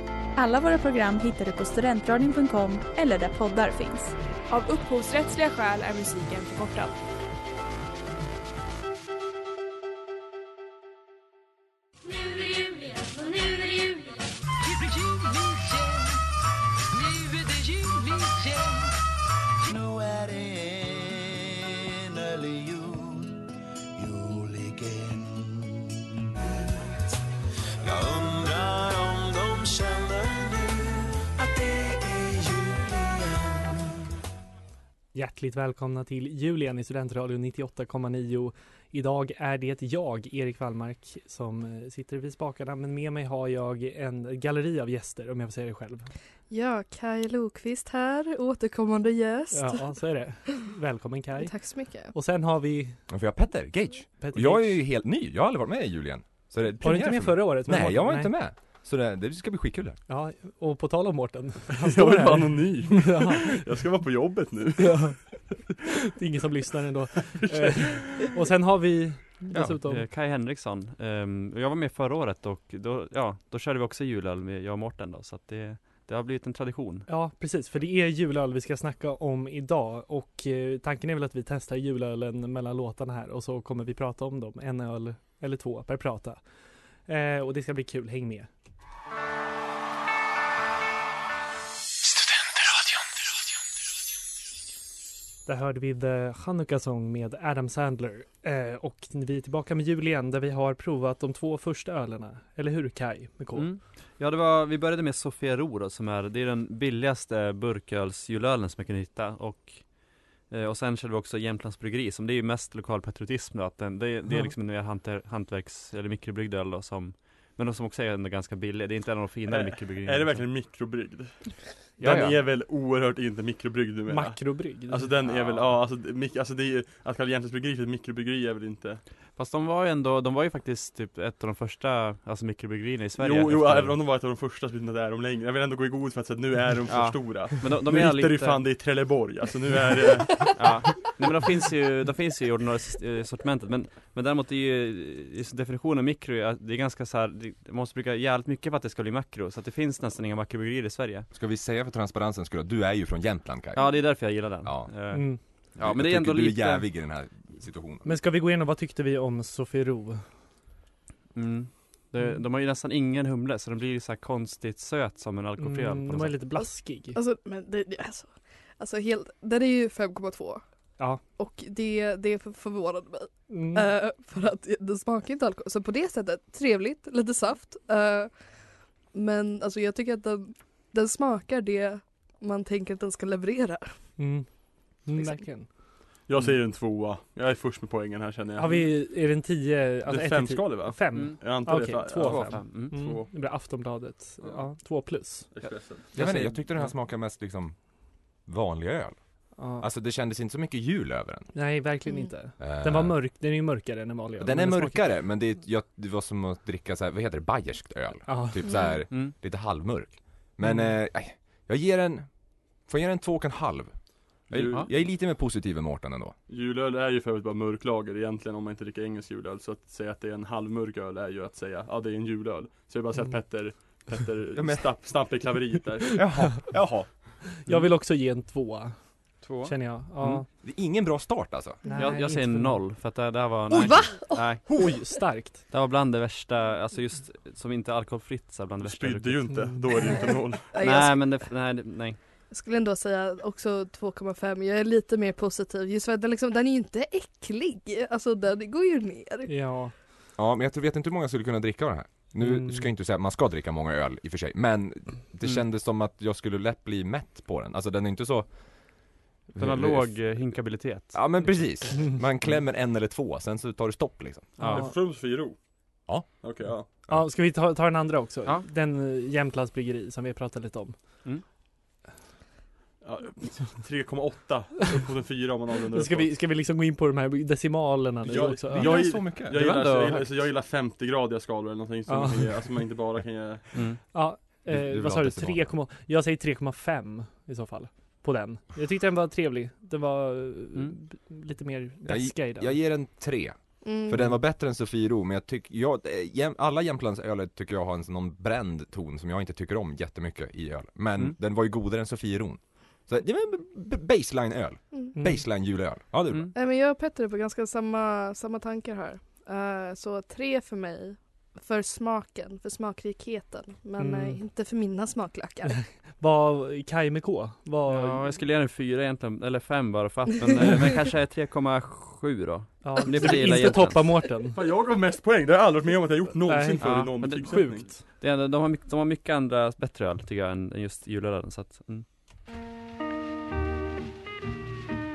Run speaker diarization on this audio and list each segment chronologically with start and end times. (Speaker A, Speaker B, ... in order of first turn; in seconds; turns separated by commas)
Speaker A: 0.4-4.2, Speaker B: 4.5-7.0, Speaker C: 12.1-16.2, Speaker C: 16.9-19.0, Speaker C: 19.6-23.4, Speaker C: 24.0-26.0, Speaker C: 27.8-33.9, Speaker D: 35.1-46.1, Speaker E: 46.5-49.9, Speaker D: 49.5-53.0, Speaker E: 51.4-52.1, Speaker F: 53.1-60.0, Speaker D: 54.2-54.8, Speaker D: 56.8-58.3, Speaker D: 60.1-63.6, Speaker G: 61.7-65.1, Speaker D: 64.8-70.1, Speaker G: 67.4-68.1, Speaker F: 69.5-69.8, Speaker H: 69.8-77.1, Speaker D: 77.1-86.4, Speaker D: 87.1-88.5, Speaker D: 95.5-103.7, Speaker H: 103.5-120.5, Speaker D: 114.3-114.5, Speaker G: 119.5-129.0, Speaker H: 122.0-122.4, Speaker F: 122.0-122.3, Speaker D: 124.1-125.2, Speaker H: 125.3-125.7, Speaker H: 129.3-134.0, Speaker G: 133.2-141.1, Speaker H: 136.9-138.7, Speaker H: 140.3-151.3, Speaker F: 151.3-154.9, Speaker H: 153.8-156.9, Speaker D: 155.1-155.4, Speaker F: 155.8-158.2, Speaker D: 158.0-160.2, Speaker H: 161.3-166.4, Speaker D: 165.6-167.2, Speaker E: 167.2-170.6, Speaker E: 171.4-184.1, Speaker D: 173.5-173.9, Speaker D: 184.2-185.7, Speaker E: 185.2-185.4, Speaker G: 186.3-189.1, Speaker D: 188.6-195.7, Speaker G: 190.1-193.6, Speaker H: 191.1-191.7, Speaker H: 192.2-193.0, Speaker G: 194.4-194.7, Speaker G: 195.5-196.1, Speaker H: 195.6-196.6, Speaker F: 196.2-201.5, Speaker D: 199.6-199.8, Speaker D: 201.5-205.1, Speaker F: 202.6-203.2, Speaker F: 204.4-216.4, Speaker D: 208.3-208.6, Speaker E: 208.6-209.0, Speaker D: 210.6-210.9, Speaker G: 214.5-214.9, Speaker G: 216.5-226.2, Speaker F: 224.6-224.9, Speaker F: 226.1-227.3, Speaker D: 227.6-230.5, Speaker H: 229.4-230.4, Speaker F: 230.6-231.8, Speaker D: 231.9-232.8, Speaker H: 232.0-234.6, Speaker F: 233.7-234.9, Speaker E: 233.8-234.7, Speaker D: 234.7-235.6, Speaker H: 235.7-239.7, Speaker G: 238.8-240.7, Speaker D: 239.5-239.8, Speaker E: 240.1-241.5, Speaker H: 240.8-242.2, Speaker E: 242.5-249.5, Speaker D: 249.5-249.9, Speaker F: 250.4-264.6, Speaker D: 252.4-252.9, Speaker H: 259.6-261.7, Speaker H: 264.6-264.9, Speaker G: 264.6-266.9, Speaker D: 264.7-264.9, Speaker F: 266.1-267.2, Speaker D: 267.1-271.2, Speaker G: 273.0-276.4, Speaker D: 275.9-278.9, Speaker G: 278.2-283.8, Speaker F: 278.7-279.8, Speaker H: 279.2-280.4, Speaker D: 282.1-282.6, Speaker H: 283.7-284.0, Speaker D: 284.1-292.8, Speaker F: 284.7-285.7, Speaker F: 292.0-306.5, Speaker E: 293.8-294.3, Speaker D: 305.1-305.4, Speaker E: 306.6-315.8, Speaker D: 314.0-314.4, Speaker D: 316.2-318.2, Speaker H: 317.9-324.3, Speaker D: 322.8-324.6, Speaker G: 324.4-327.9, Speaker D: 326.5-328.0, Speaker H: 326.8-332.1